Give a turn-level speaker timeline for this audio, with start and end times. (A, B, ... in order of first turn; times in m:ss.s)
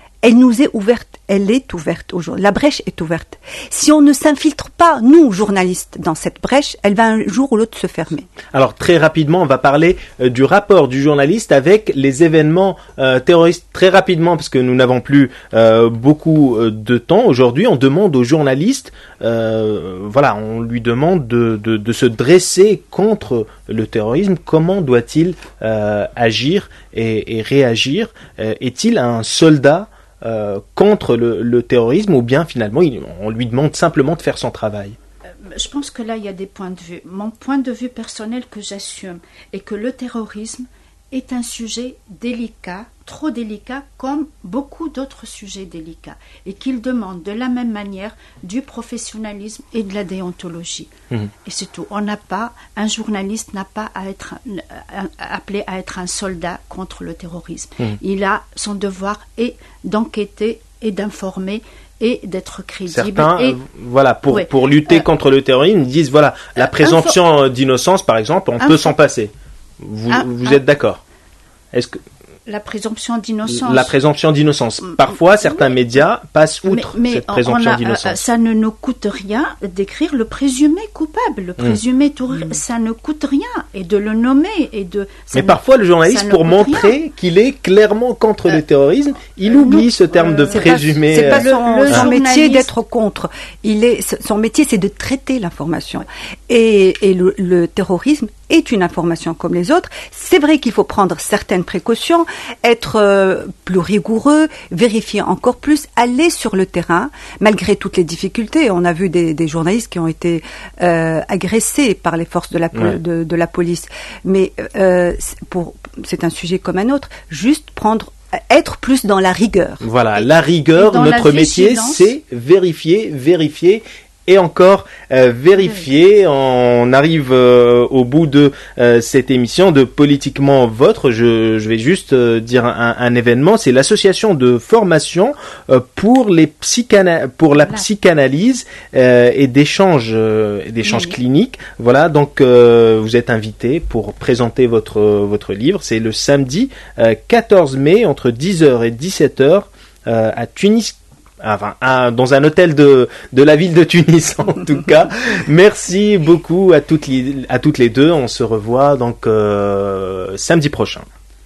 0:00.2-0:08.3 A
0:08.5-0:35.0 B
0:35.4-0:50.9 C
0:51.4-1:03.6 C
1:02.9-1:11.0 B
1:04.3-1:05.0 C
1:06.6-1:07.2 C
1:08.6-1:08.9 C
1:10.1-1:10.6 C
1:11.7-1:12.0 B
1:12.5-1:14.0 C
1:13.5-1:18.2 B
1:16.7-1:27.0 C
1:25.3-1:32.0 B
1:29.5-1:32.7 C
1:30.5-1:59.8 A
1:59.8-2:41.1 B
2:00.2-2:02.1 C
2:20.8-2:21.2 C